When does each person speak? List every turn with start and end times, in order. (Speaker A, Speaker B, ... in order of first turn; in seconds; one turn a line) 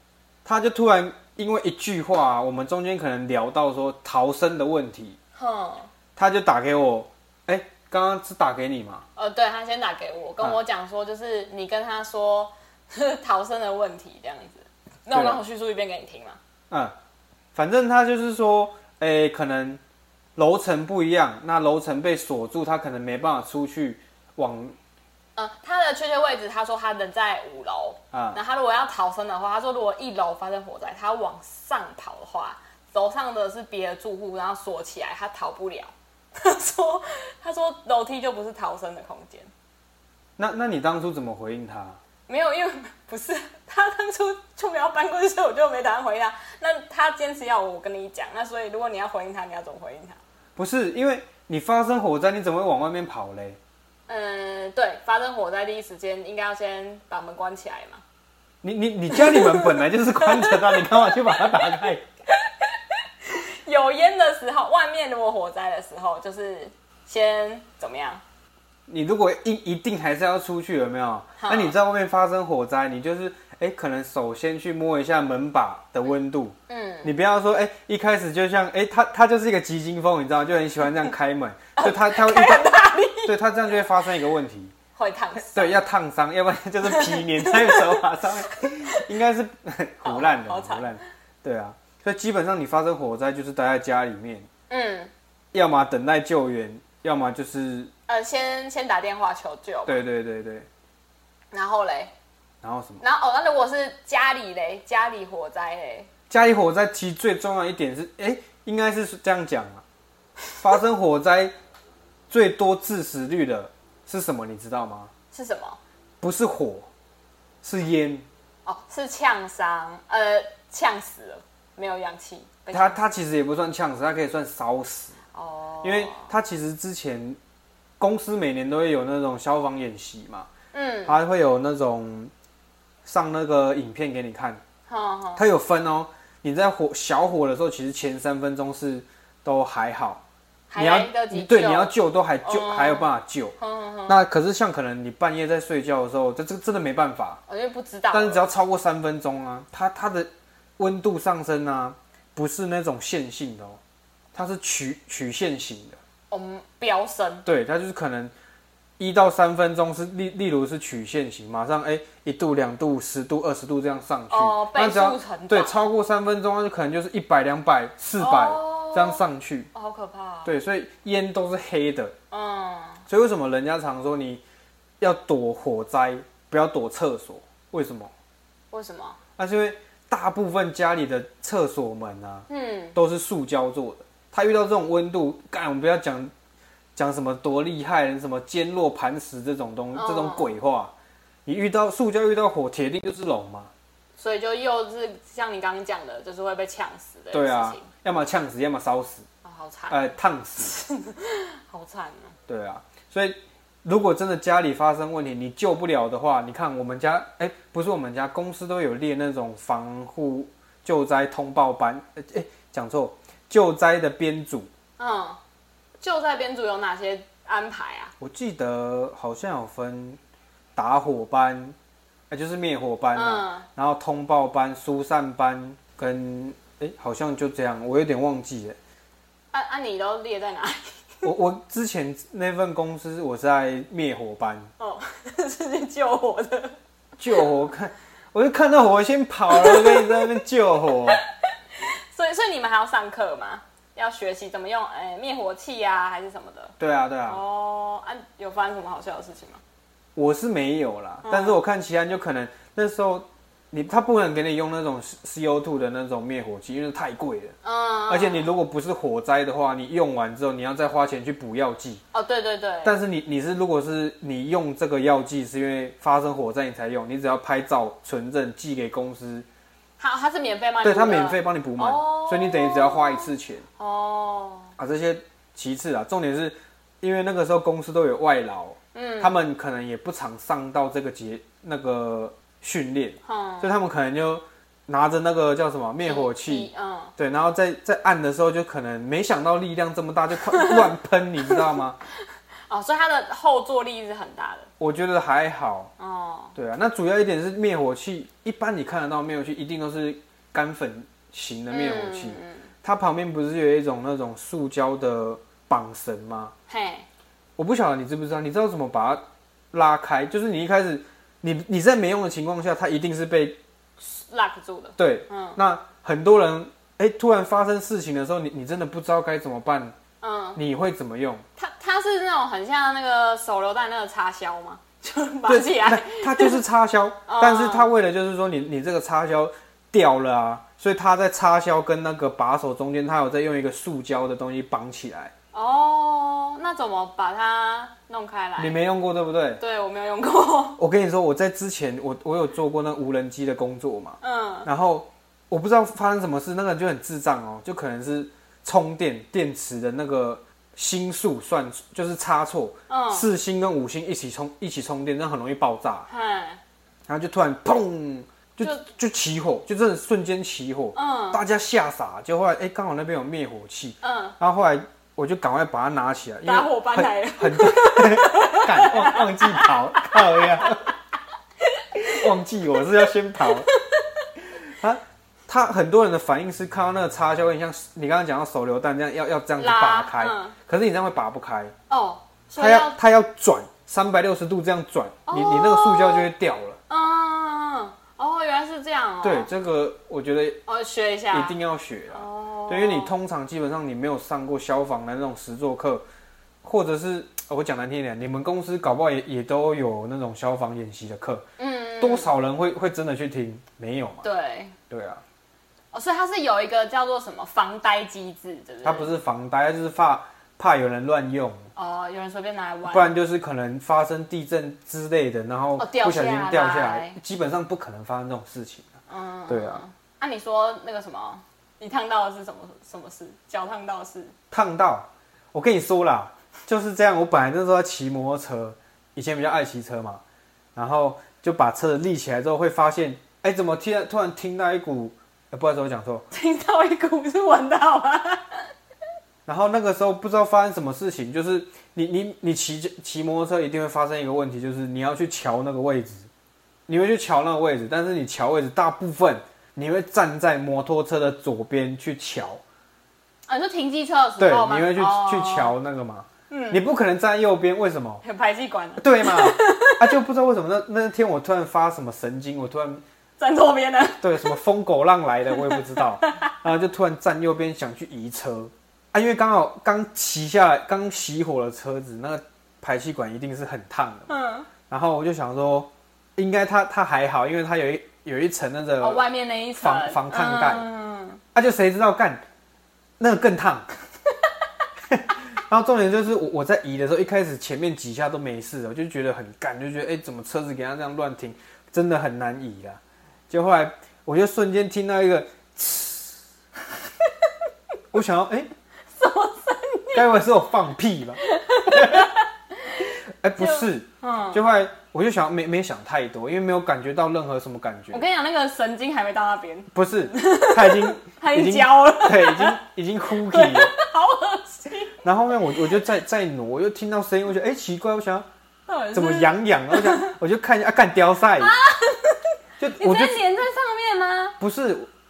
Speaker A: 0.5-5.2
Speaker B: 5.3-5.9
Speaker A: 6.2-9.1
Speaker B: 9.2-16.4
Speaker A: 15.1-15.4
Speaker A: 16.7-16.9
Speaker A: 17.6-19.8
Speaker A: 20.4-24.8
Speaker B: 25.4-39.5
Speaker A: 28.1-28.4
Speaker A: 40.4-42.0
Speaker B: 42.3-50.2
Speaker A: 50.6-53.6
Speaker B: 54.1-58.0
Speaker A: 58.6-62.0
Speaker B: 59.1-61.8
Speaker B: 62.4-68.2
Speaker A: 68.9-84.7
Speaker B: 71.4-71.8
Speaker B: 76.7-77.1
Speaker B: 81.8-83.3
Speaker B: 85.0-85.8
Speaker A: 85.3-94.5
Speaker B: 86.8-88.0
Speaker B: 88.7-89.0
Speaker B: 90.0-91.0
Speaker B: 94.7-95.1
Speaker A: 95.5-97.9
Speaker B: 98.1-100.0
Speaker A: 99.9-100.7
Speaker B: 101.5-102.1
Speaker A: 102.6-103.0
Speaker B: 103.0-106.1
Speaker A: 106.3-109.8
Speaker A: 110.6-111.5
Speaker A: 112.3-115.1
Speaker B: 115.3-115.8
Speaker A: 116.2-116.9
Speaker A: 117.6-118.3
Speaker B: 118.7-123.0
Speaker A: 122.7-125.2
Speaker B: 125.3-126.3
Speaker A: 125.8-127.4
Speaker A: 128.0-130.5
Speaker B: 130.7-131.2
Speaker A: 131.1-132.3
Speaker A: 133.0-134.6
Speaker B: 134.9-135.4
Speaker A: 135.4-140.2
Speaker B: 140.7-143.1
Speaker A: 140.8-143.5
Speaker B: 143.6-144.2
Speaker A: 144.1-147.4
Speaker B: 147.5-148.4
Speaker A: 148.1-153.8
Speaker A: 154.3-156.0
Speaker B: 156.3-157.5
Speaker A: 157.4-158.3
Speaker A: 159.0-169.7
Speaker B: 164.3-165.8
Speaker B: 168.2-170.5
Speaker A: 170.4-172.1
Speaker B: 172.3-173.0
Speaker A: 173.1-174.4
Speaker A: 175.0-178.1
Speaker B: 178.7-179.2
Speaker A: 179.4-186.3
Speaker B: 182.5-183.0
Speaker A: 187.0-190.9
Speaker B: 189.9-190.6
Speaker A: 191.5-193.7
Speaker B: 194.2-197.9
Speaker A: 197.3-199.2
Speaker B: 199.4-202.4
Speaker A: 199.9-200.8
Speaker A: 202.5-214.7
Speaker B: 215.0-215.4
Speaker B: 216.0-218.1
Speaker A: 218.2-220.2
Speaker A: 220.8-221.8
Speaker A: 222.3-228.8
Speaker B: 223.1-223.7
Speaker B: 229.5-231.2
Speaker A: 231.2-234.7
Speaker B: 234.8-236.8
Speaker A: 237.2-241.2
Speaker B: 239.5-240.2
Speaker B: 241.7-246.7
Speaker A: 246.8-247.4
Speaker B: 247.3-249.6
Speaker A: 250.2-257.6
Speaker B: 251.2-251.6
Speaker B: 257.6-258.5
Speaker A: 258.1-262.0
Speaker B: 262.1-263.0
Speaker A: 262.8-269.5
Speaker B: 270.0-274.7
Speaker A: 270.8-273.6
Speaker A: 274.8-292.0
Speaker B: 278.9-279.4
Speaker B: 283.2-283.7
Speaker B: 286.0-287.1
Speaker B: 290.5-290.9
Speaker B: 292.7-294.7
Speaker A: 294.8-295.9
Speaker B: 296.0-296.5
Speaker A: 296.6-306.5
Speaker B: 301.7-302.7
Speaker B: 306.7-307.1
Speaker A: 307.6-313.6
Speaker B: 314.0-315.6
Speaker A: 315.0-319.9
Speaker B: 320.2-320.6
Speaker A: 320.6-321.4
Speaker B: 321.6-326.6
Speaker A: 325.5-335.3
Speaker B: 327.3-327.9
Speaker B: 335.5-338.8
Speaker A: 338.6-339.6
Speaker B: 339.6-340.8
Speaker A: 340.8-356.1
Speaker B: 344.2-344.7
Speaker B: 352.9-353.3
Speaker B: 356.1-356.6
Speaker A: 357.1-370.9
Speaker B: 360.9-361.4
Speaker B: 364.0-364.4
Speaker B: 366.4-370.9
Speaker B: 371.7-372.3
Speaker A: 372.0-373.7
Speaker B: 373.4-374.1
Speaker A: 374.6-381.7
Speaker B: 379.6-380.6
Speaker B: 381.9-383.0
Speaker A: 382.6-386.8
Speaker B: 385.3-386.3
Speaker B: 386.9-389.5
Speaker A: 389.2-390.6
Speaker B: 390.7-391.6
Speaker A: 391.3-396.1
Speaker B: 392.1-393.1
Speaker A: 396.6-401.5
Speaker B: 401.6-402.3
Speaker A: 402.0-404.3
Speaker B: 404.2-404.8
Speaker A: 404.9-405.2
Speaker B: 405.9-409.1
Speaker A: 408.8-411.7
Speaker B: 411.8-413.1
Speaker A: 412.9-418.9
Speaker B: 415.8-417.2
Speaker B: 419.1-424.3
Speaker A: 419.5-419.8
Speaker A: 424.5-430.2
Speaker A: 430.8-436.2
Speaker B: 436.3-438.7
Speaker A: 439.5-446.3
Speaker A: 446.9-452.6
Speaker B: 453.5-455.7
Speaker A: 454.4-458.2
Speaker B: 456.5-456.8
Speaker B: 458.2-460.1
Speaker A: 459.0-463.0
Speaker B: 463.4-464.6
Speaker A: 464.2-474.3
Speaker B: 465.5-466.5
Speaker B: 474.3-474.7
Speaker A: 474.9-479.2
Speaker B: 479.0-481.4
Speaker A: 479.8-480.9
Speaker A: 481.6-482.4
Speaker A: 483.2-483.9
Speaker A: 485.1-493.0
Speaker A: 493.5-496.4
Speaker A: 498.1-498.7
Speaker B: 499.1-500.2
Speaker A: 500.1-502.3
Speaker B: 501.4-504.6
Speaker A: 503.4-508.2
Speaker B: 508.1-512.8
Speaker A: 509.9-514.0
Speaker B: 513.4-515.2
Speaker A: 515.2-518.5
Speaker B: 518.9-520.3
Speaker A: 519.1-521.8
Speaker B: 521.6-522.5
Speaker A: 522.8-523.4
Speaker B: 523.0-524.6
Speaker A: 524.6-525.1